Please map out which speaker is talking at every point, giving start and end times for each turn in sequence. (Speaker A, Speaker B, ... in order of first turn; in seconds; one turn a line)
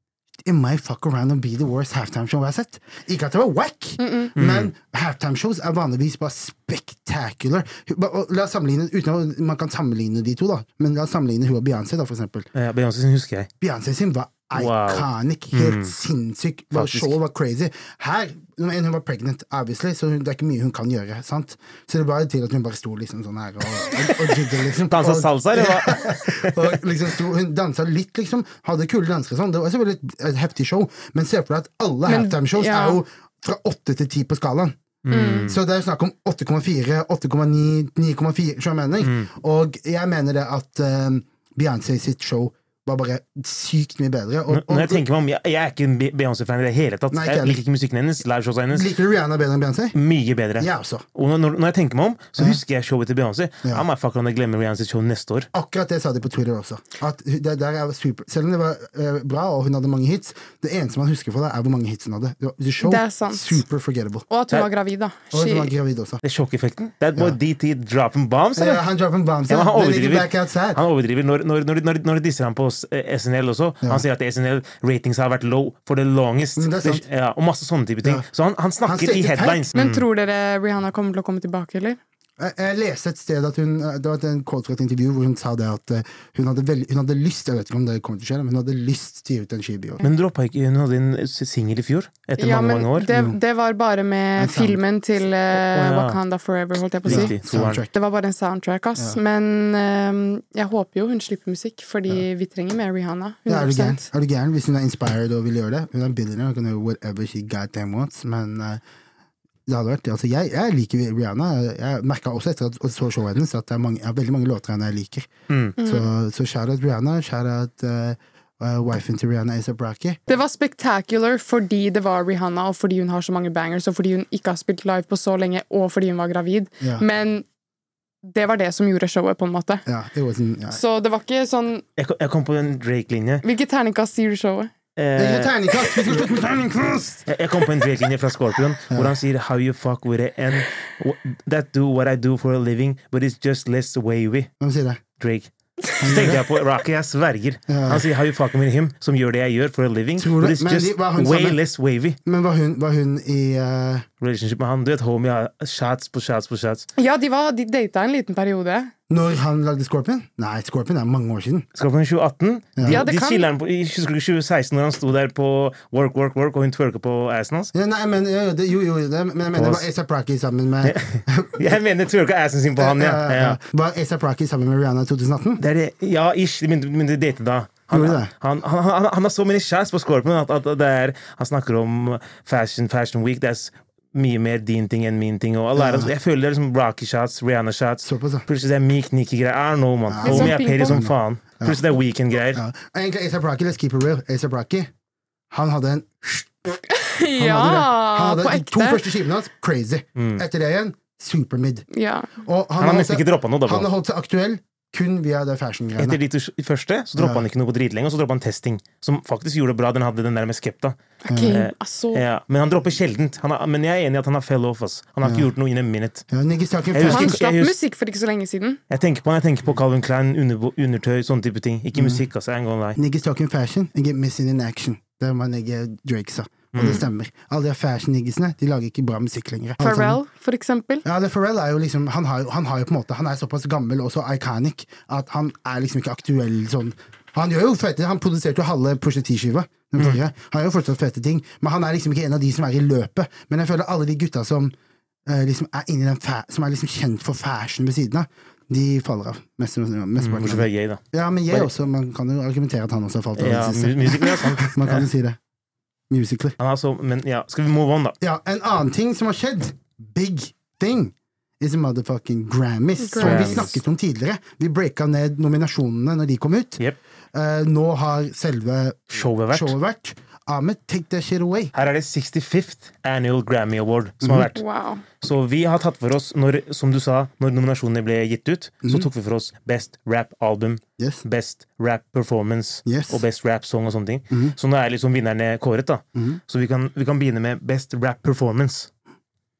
Speaker A: 0.4-12.5
Speaker B: 4.0-4.3
Speaker C: 4.4-4.7
Speaker C: 12.5-13.5
Speaker A: 13.6-34.8
Speaker C: 14.5-15.9
Speaker C: 16.7-17.1
Speaker C: 23.8-26.8
Speaker B: 32.1-33.0
Speaker C: 35.0-35.6
Speaker B: 35.1-35.5
Speaker A: 35.5-45.0
Speaker C: 39.0-39.3
Speaker C: 44.5-48.9
Speaker A: 47.1-47.6
Speaker A: 48.7-50.0
Speaker C: 49.9-55.5
Speaker A: 50.6-51.0
Speaker A: 55.5-64.3
Speaker B: 62.8-63.6
Speaker B: 64.3-65.7
Speaker A: 65.3-66.2
Speaker C: 66.2-68.8
Speaker A: 68.6-70.8
Speaker C: 69.5-80.0
Speaker A: 76.6-77.0
Speaker A: 78.8-79.7
Speaker B: 79.7-82.0
Speaker A: 82.4-90.0
Speaker C: 90.0-93.1
Speaker B: 92.4-104.1
Speaker A: 93.1-93.4
Speaker A: 94.4-94.8
Speaker C: 95.5-96.2
Speaker C: 97.0-97.8
Speaker A: 97.1-97.9
Speaker A: 103.5-108.8
Speaker A: 109.7-120.2
Speaker C: 115.5-115.8
Speaker B: 115.8-116.1
Speaker B: 120.3-127.5
Speaker B: 128.2-129.8
Speaker A: 129.9-130.8
Speaker B: 130.7-131.8
Speaker C: 132.0-133.4
Speaker B: 133.4-134.7
Speaker C: 134.9-135.6
Speaker A: 135.2-137.3
Speaker C: 137.3-144.5
Speaker A: 138.9-139.2
Speaker A: 144.6-145.0
Speaker C: 145.2-145.5
Speaker C: 146.0-152.2
Speaker A: 146.0-146.4
Speaker A: 147.7-148.0
Speaker A: 150.2-151.6
Speaker A: 152.2-154.1
Speaker C: 154.2-156.9
Speaker B: 157.0-158.9
Speaker A: 159.1-161.7
Speaker C: 161.8-167.7
Speaker A: 162.8-163.0
Speaker B: 162.9-163.5
Speaker A: 167.7-171.8
Speaker C: 169.5-169.9
Speaker C: 170.8-173.6
Speaker A: 172.8-175.6
Speaker C: 175.6-192.6
Speaker A: 177.9-178.3
Speaker A: 185.7-186.1
Speaker A: 188.0-188.4
Speaker A: 190.1-191.8
Speaker B: 190.2-191.0
Speaker A: 192.5-194.9
Speaker A: 195.5-196.5
Speaker B: 196.9-199.0
Speaker A: 197.4-201.9
Speaker C: 200.2-200.4
Speaker B: 201.9-202.3
Speaker A: 202.4-206.2
Speaker C: 202.8-203.9
Speaker C: 206.0-216.2
Speaker A: 207.2-207.4
Speaker B: 211.2-212.2
Speaker A: 211.3-211.6
Speaker A: 215.2-215.5
Speaker A: 216.3-217.4
Speaker C: 216.9-217.7
Speaker B: 217.0-218.8
Speaker C: 218.9-223.0
Speaker A: 221.9-222.2
Speaker A: 222.9-230.2
Speaker C: 226.7-227.0
Speaker B: 229.8-231.0
Speaker A: 231.0-244.7
Speaker A: 245.2-255.4
Speaker C: 250.2-251.7
Speaker C: 253.4-255.1
Speaker A: 256.1-256.6
Speaker C: 256.6-258.1
Speaker A: 258.2-266.8
Speaker B: 263.0-263.8
Speaker C: 263.2-263.8
Speaker A: 267.3-271.7
Speaker C: 269.1-269.7
Speaker C: 271.7-274.6
Speaker A: 274.2-274.5
Speaker B: 274.5-275.0
Speaker C: 275.2-288.9
Speaker A: 281.0-281.2
Speaker A: 282.9-283.2
Speaker A: 284.3-284.6
Speaker A: 286.1-286.4